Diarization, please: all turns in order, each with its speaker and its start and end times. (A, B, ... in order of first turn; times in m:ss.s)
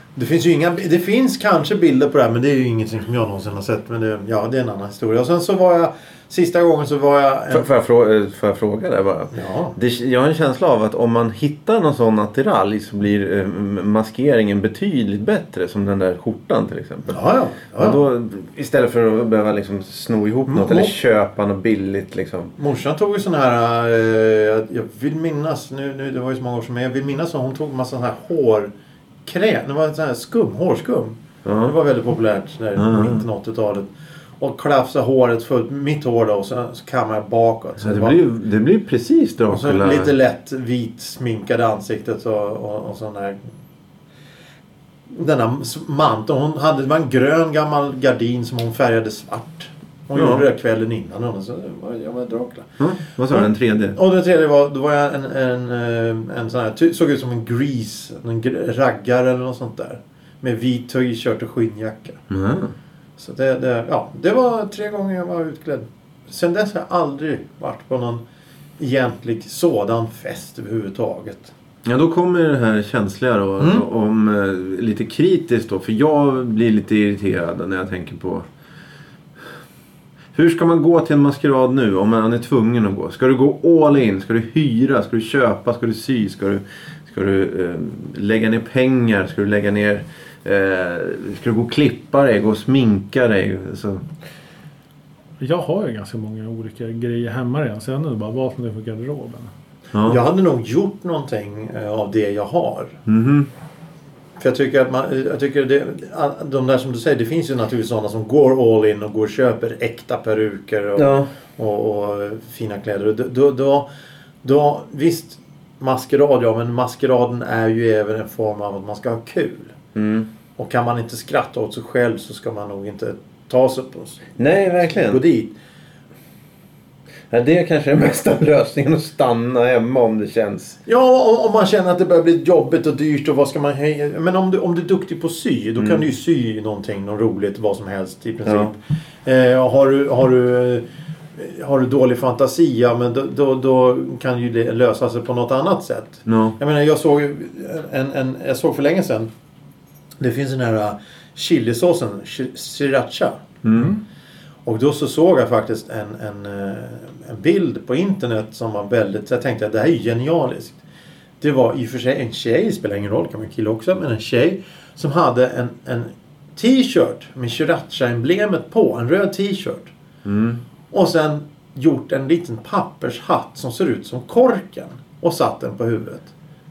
0:00.2-0:07.6 A
0:07.5-0:17.2 B
0:09.3-0:09.8 A
0:17.1-0:18.0 A
0:17.8-0:22.5 B
0:20.5-0:20.9 A
0:22.6-0:28.7 A
0:29.2-0:38.2 A
0:31.4-0:31.7 B
0:32.8-0:33.2 B
0:37.8-0:40.1 B
0:39.5-0:43.5 A
0:45.1-0:52.8 A
0:50.1-0:50.4 B
0:52.8-0:54.0 B
0:53.3-1:02.2 A
1:02.3-1:02.7 B
1:03.2-1:08.2 A
1:08.8-1:11.5 A
1:11.8-1:18.4 B
1:13.6-1:13.8 A
1:20.3-1:34.0 B
1:35.4-1:39.5 C
1:39.9-1:40.2 B
1:40.0-1:43.0 A
1:43.0-1:43.5 B
1:44.4-1:53.9 A
1:51.0-1:51.3 B
1:54.4-1:59.8 A
1:59.9-2:00.3 B
2:00.6-2:05.5 A
2:04.4-2:05.2 B
2:07.3-2:10.8 B
2:10.8-2:20.8 A
2:15.8-2:16.0 B
2:18.4-2:18.7 B
2:21.4-2:29.3 A
2:26.2-2:26.6 B
2:30.2-2:33.4 A
2:33.6-2:33.9 B
2:33.7-2:34.0 C
2:34.6-2:40.8 A
2:41.4-2:49.9 A
2:50.2-2:50.6 B
2:50.9-2:56.3 A